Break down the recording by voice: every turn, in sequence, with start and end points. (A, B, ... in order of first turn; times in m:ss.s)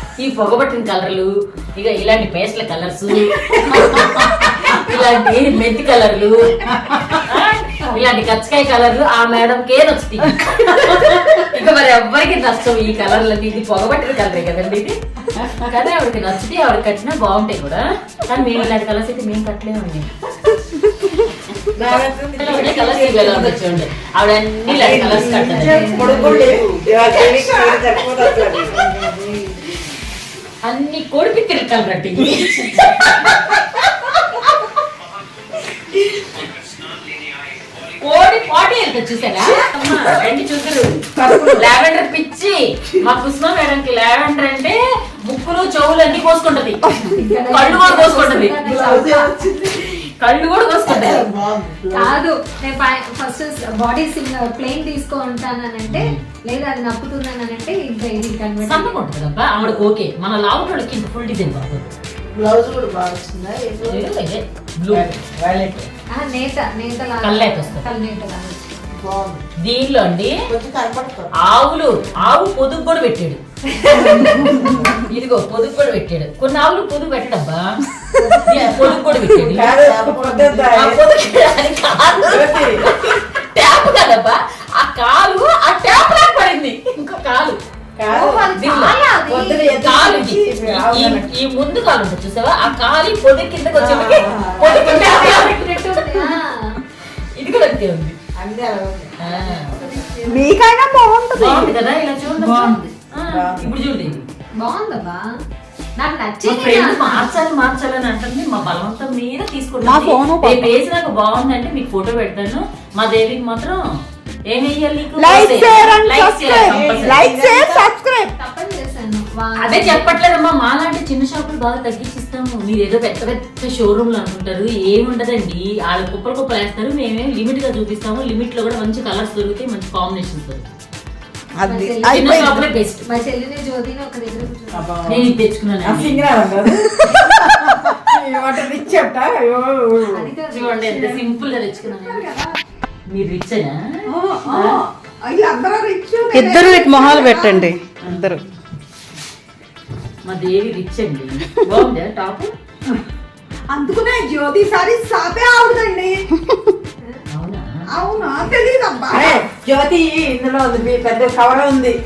0:00.2-0:20.1 A
0:21.7-0:23.6 B
0:22.4-0:26.5 A
0:24.6-0:29.0 B
0:25.6-0:26.5 C
0:25.7-0:26.7 D
0:28.8-0:29.6 C
0:30.6-0:33.6 A
0:38.0-0:48.6 A
0:41.2-0:41.7 E
0:47.1-0:49.4 C
0:48.6-0:49.9 D
0:50.2-0:51.2 A
0:50.8-0:52.1 B
0:51.2-0:51.9 D
0:51.9-0:59.0 C
0:55.9-0:56.2 A
0:58.6-1:01.9 A
0:59.6-0:59.9 B
1:02.4-1:04.1 D
1:03.8-1:05.2 A
1:04.9-1:05.9 B
1:06.1-1:08.7 C
1:07.2-1:07.9 A
1:08.9-1:09.4 D
1:09.6-1:10.3 A
1:10.5-1:11.3 D
1:11.4-1:13.4 A
1:13.8-1:15.0 B
1:14.0-1:17.8 A
1:14.1-1:14.6 D
1:18.3-1:18.9 D
1:18.3-1:21.0 B
1:18.4-1:19.9 A
1:19.8-1:20.7 D
1:20.7-1:27.6 A
1:22.2-1:22.8 B
1:28.0-1:28.6 B
1:28.1-1:29.7 C
1:28.6-1:29.0 A
1:29.2-1:31.3 B
1:29.6-1:36.2 A
1:33.7-1:35.5 B
1:34.6-1:36.8 C
1:37.3-1:38.2 A
1:38.3-1:40.2 B
1:39.2-1:39.7 A
1:39.7-1:40.5 C
1:40.2-1:41.7 E
1:41.4-1:44.2 A
1:42.4-1:43.8 B
1:44.6-1:45.2 C
1:46.0-1:47.4 C
1:46.4-1:53.8 A
1:49.8-1:50.7 E
1:54.5-1:57.2 A
1:55.2-1:58.3 E
1:56.7-1:57.5 D
1:56.8-1:57.8 B
1:58.4-2:00.2 C
1:59.6-2:10.7 A
2:11.6-2:15.0 C
2:11.7-2:12.0 B
2:12.0-2:12.7 E
2:12.1-2:13.0 A
2:14.7-2:20.3 B
2:15.1-2:16.3 A
2:20.0-2:21.4 C
2:20.5-2:22.2 A
2:22.1-2:22.5 C
2:23.1-2:23.7 A
2:24.2-2:24.8 B
2:24.5-2:24.8 A
2:25.2-2:27.7 E
2:26.3-2:28.4 B
2:28.0-2:28.3 A
2:30.2-2:32.5 A
2:33.7-2:36.2 E
2:37.3-2:37.7 A
2:37.9-2:39.4 E
2:39.1-2:41.9 B